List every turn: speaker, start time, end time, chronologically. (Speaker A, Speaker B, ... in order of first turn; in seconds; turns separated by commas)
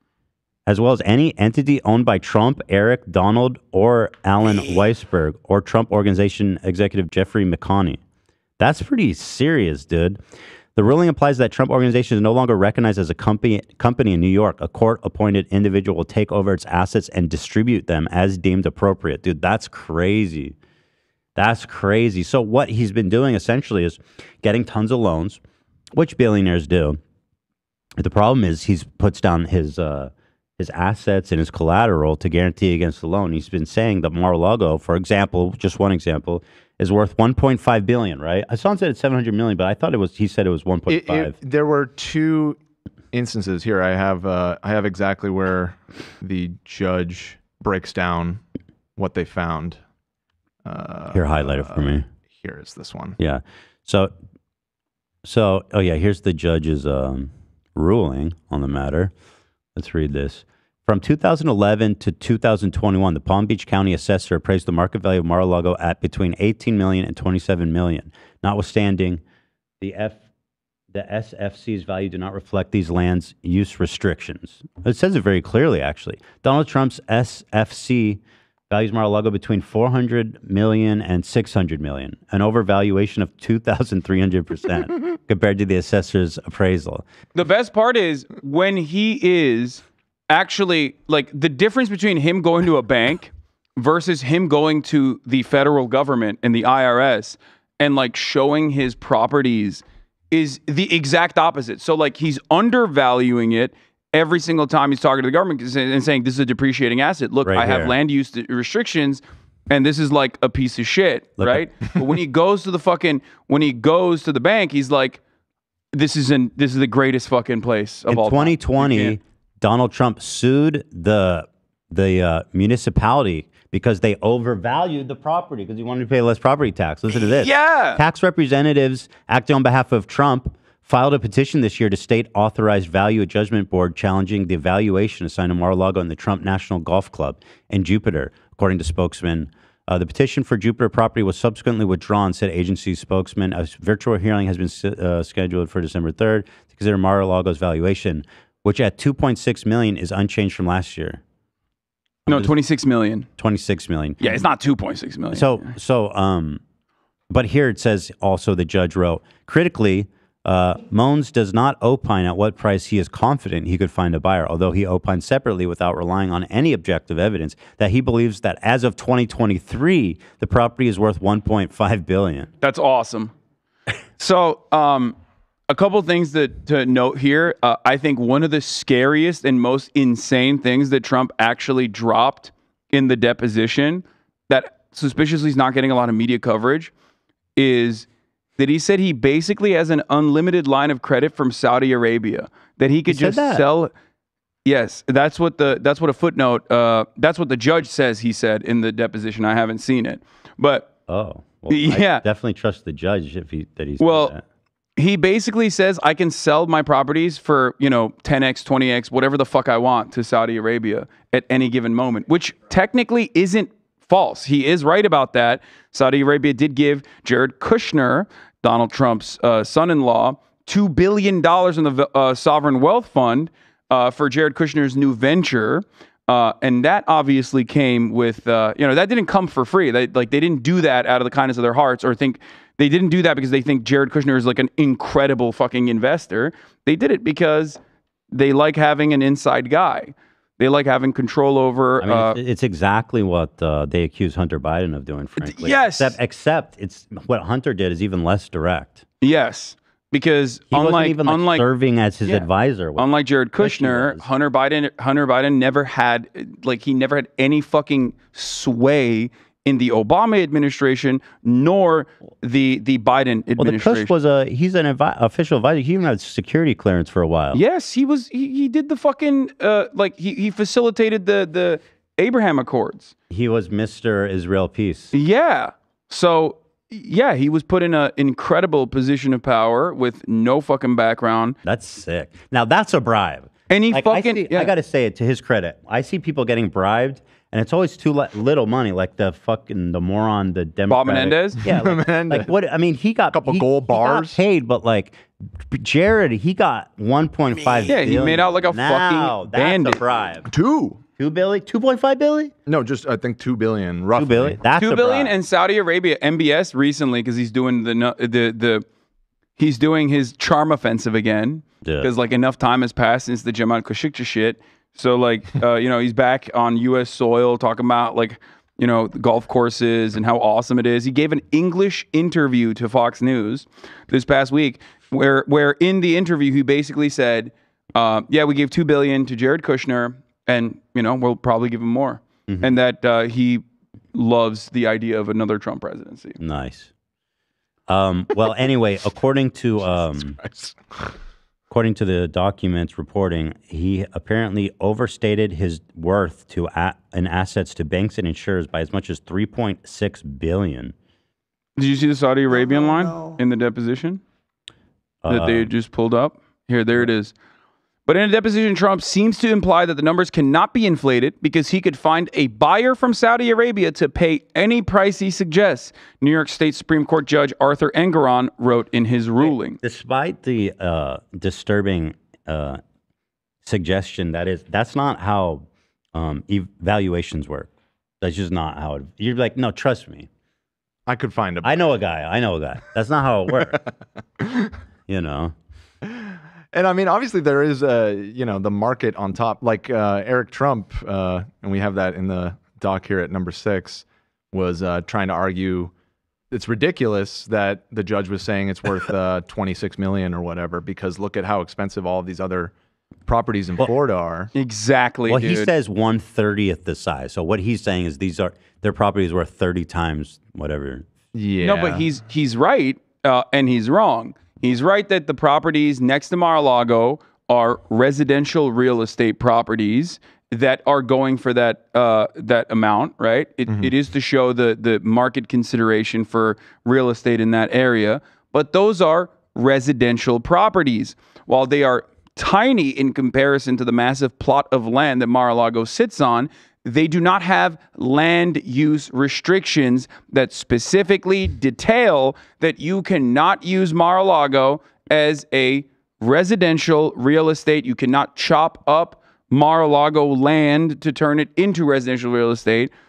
Speaker A: 0.7-8.0, Speaker A: 8.6-10.2, Speaker A: 10.7-20.6, Speaker A: 21.4-25.4, Speaker A: 25.9-27.0, Speaker A: 28.0-41.3, Speaker B: 40.9-42.6, Speaker B: 43.1-48.4, Speaker B: 49.0-49.8, Speaker B: 50.6-53.2, Speaker A: 51.1-52.0, Speaker A: 53.2-54.1, Speaker A: 55.2-59.1, Speaker A: 59.7-69.2, Speaker A: 69.8-70.2, Speaker A: 70.9-87.0, Speaker C: 87.3-115.2, Speaker A: 107.4-107.9, Speaker A: 111.4-111.7, Speaker C: 115.9-119.2, Speaker A: 118.1-151.2, Speaker C: 127.1-128.0, Speaker A: 152.3-152.5, Speaker C: 152.3-153.3, Speaker A: 153.4-154.2, Speaker C: 154.2-155.7, Speaker A: 155.3-156.6, Speaker A: 157.3-172.5, Speaker C: 172.6-173.3, Speaker C: 174.2-175.2, Speaker C: 175.7-186.9, Speaker C: 187.6-188.1, Speaker C: 188.6-193.9, Speaker A: 193.1-193.7, Speaker C: 194.6-200.9, Speaker A: 201.1-204.4, Speaker C: 201.7-202.2, Speaker C: 204.0-204.3, Speaker C: 205.0-237.8, Speaker C: 238.3-242.4, Speaker A: 242.0-249.0, Speaker C: 245.4-246.2, Speaker C: 249.2-251.6, Speaker A: 250.7-254.2, Speaker C: 252.2-264.1, Speaker A: 263.6-267.6, Speaker C: 267.5-273.1, Speaker A: 273.3-275.1, Speaker C: 275.1-281.6, Speaker A: 281.6-300.5, Speaker C: 283.7-284.7, Speaker C: 290.9-291.6, Speaker B: 291.6-292.5, Speaker B: 293.3-294.4, Speaker C: 297.8-300.0, Speaker B: 300.5-301.0, Speaker A: 301.2-302.5, Speaker B: 302.7-304.6, Speaker A: 304.1-305.3, Speaker C: 304.7-308.8, Speaker C: 309.6-336.4, Speaker A: 311.8-312.1, Speaker A: 332.5-332.7, Speaker A: 336.4-336.9, Speaker A: 337.9-340.4, Speaker B: 340.1-341.0, Speaker A: 341.7-350.9, Speaker C: 351.8-354.2, Speaker B: 352.9-353.3, Speaker A: 355.2-355.7, Speaker C: 355.3-357.3, Speaker C: 358.1-369.8, Speaker A: 369.4-372.8, Speaker A: 373.6-380.3, Speaker B: 381.1-381.7, Speaker A: 381.6-383.8, Speaker B: 384.4-384.7, Speaker A: 385.1-385.5, Speaker B: 386.1-395.9, Speaker B: 396.5-402.7, Speaker B: 403.2-404.5, Speaker C: 404.5-405.7, Speaker A: 405.3-411.1, Speaker B: 411.3-412.1, Speaker C: 411.6-452.9